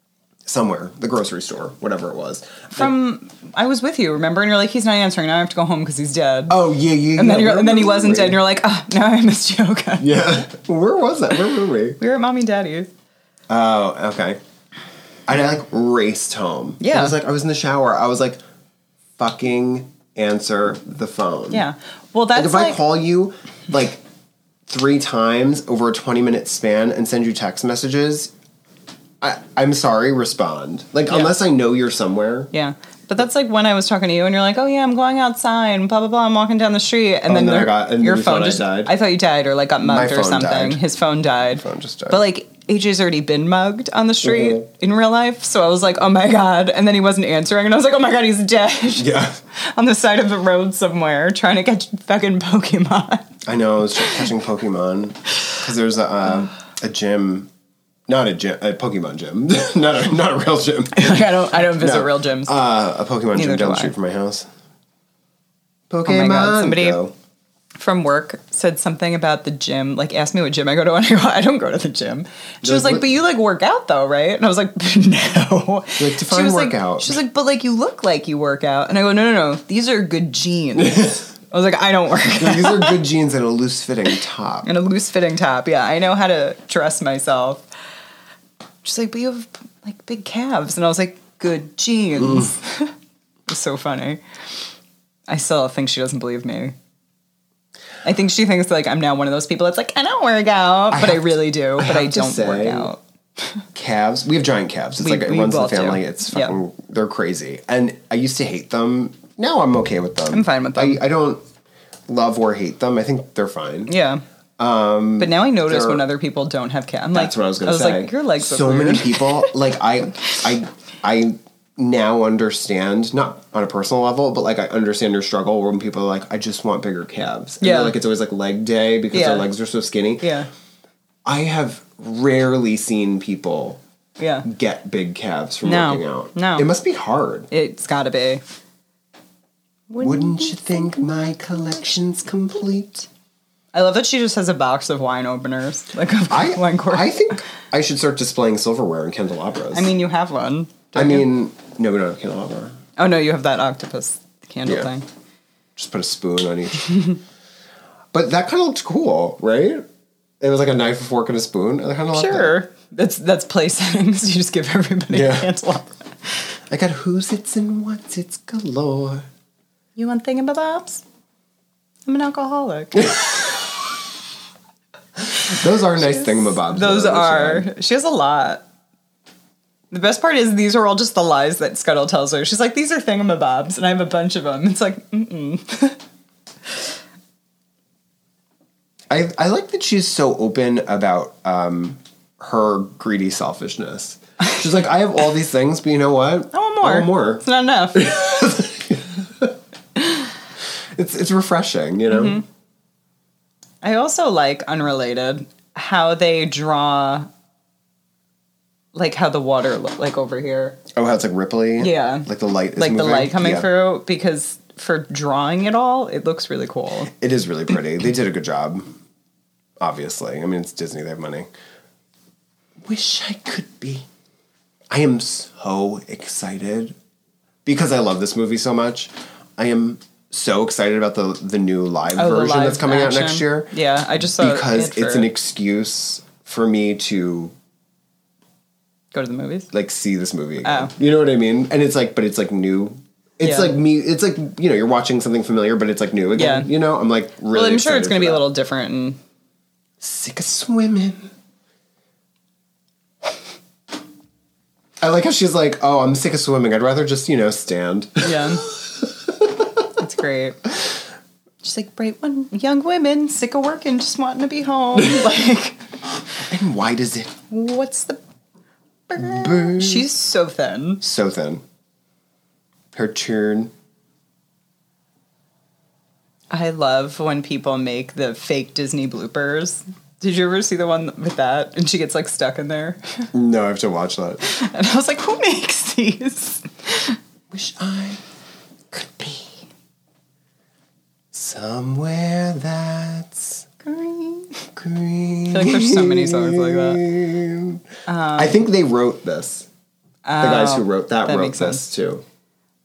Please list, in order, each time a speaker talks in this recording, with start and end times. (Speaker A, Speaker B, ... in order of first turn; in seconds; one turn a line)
Speaker A: 0.5-2.9
Speaker B: 2.7-6.6
Speaker A: 6.5-8.4
Speaker B: 7.2-10.1
Speaker A: 10.0-12.0
Speaker B: 12.0-12.9
Speaker A: 13.5-14.4
Speaker A: 15.3-18.4
Speaker B: 16.8-17.1
Speaker A: 19.2-21.6
Speaker B: 21.5-22.8
Speaker A: 22.3-24.0
Speaker A: 24.7-28.3
Speaker A: 29.2-32.5
Speaker B: 31.1-31.3
Speaker B: 32.5-53.4
Speaker A: 37.3-38.9
Speaker A: 39.8-40.8
Speaker A: 41.5-42.2
Speaker A: 44.2-44.7
Speaker A: 49.0-49.4
Speaker A: 53.5-57.5
Speaker A: 58.1-64.5
Speaker B: 60.9-62.5
Speaker B: 63.3-63.9
Speaker A: 65.9-67.1
Speaker B: 66.0-67.0
Speaker B: 67.8-83.0
Speaker A: 72.6-73.1
Speaker A: 76.0-77.2
Speaker A: 80.8-81.2
Speaker A: 82.3-84.7
Speaker B: 84.6-87.6
Speaker B: 88.8-92.9
Speaker A: 92.2-92.5
Speaker B: 93.5-94.2
Speaker B: 95.3-96.8
Speaker B: 98.0-103.6
Speaker A: 100.9-102.9
Speaker A: 103.8-111.4
Speaker B: 105.0-106.6
Speaker B: 110.3-111.0
Speaker A: 112.1-113.9
Speaker B: 113.9-114.2
Speaker A: 114.6-116.0
Speaker B: 115.2-119.5
Speaker A: 117.1-130.3
Speaker B: 127.6-128.0
Speaker B: 129.1-129.5
Speaker B: 130.2-130.5
Speaker A: 131.2-133.8
Speaker B: 134.2-134.5
Speaker A: 134.4-137.5
Speaker B: 135.6-136.7
Speaker B: 137.5-138.4
Speaker B: 139.9-141.8
Speaker A: 140.0-143.1
Speaker B: 143.7-147.3
Speaker A: 146.3-149.9
Speaker B: 149.7-151.3
Speaker A: 150.9-152.8
Speaker B: 153.0-155.1
Speaker A: 155.8-157.2
Speaker A: 158.1-159.9
Speaker A: 160.4-162.6
Speaker B: 162.1-166.4
Speaker A: 165.1-165.5
Speaker A: 166.7-169.3
Speaker B: 170.0-171.0
Speaker B: 172.1-173.6
Speaker A: 175.3-177.7
Speaker B: 176.0-178.6
Speaker B: 179.9-186.0
Speaker A: 189.1-199.6
Speaker B: 196.5-198.2
Speaker A: 200.9-202.4
Speaker B: 202.1-202.4
Speaker B: 203.8-207.3
Speaker B: 208.9-210.8
Speaker A: 210.9-213.7
Speaker B: 211.8-217.1
Speaker A: 217.1-219.0
Speaker A: 219.8-221.5
Speaker A: 222.8-224.1
Speaker A: 224.9-226.9
Speaker A: 227.7-233.7
Speaker B: 232.1-235.3
Speaker A: 234.4-237.5
Speaker B: 239.1-239.7
Speaker A: 239.7-248.5
Speaker B: 240.6-240.9
Speaker B: 243.4-243.8
Speaker B: 246.3-246.7
Speaker B: 247.5-249.2
Speaker A: 250.0-251.3
Speaker A: 255.0-259.7
Speaker B: 258.2-258.6
Speaker B: 260.0-260.7
Speaker B: 261.6-265.8
Speaker A: 266.4-267.4
Speaker B: 267.5-268.2
Speaker B: 269.1-271.0
Speaker A: 269.2-270.1
Speaker A: 271.0-271.6
Speaker A: 272.9-273.7
Speaker B: 276.5-283.3
Speaker A: 283.3-284.4
Speaker B: 284.4-287.2
Speaker A: 287.5-288.2
Speaker A: 288.9-289.6
Speaker A: 291.3-293.7
Speaker B: 293.8-294.7
Speaker A: 294.8-297.8
Speaker B: 295.5-297.1
Speaker B: 298.1-298.6
Speaker A: 298.4-299.7
Speaker B: 300.3-301.8
Speaker A: 300.4-302.2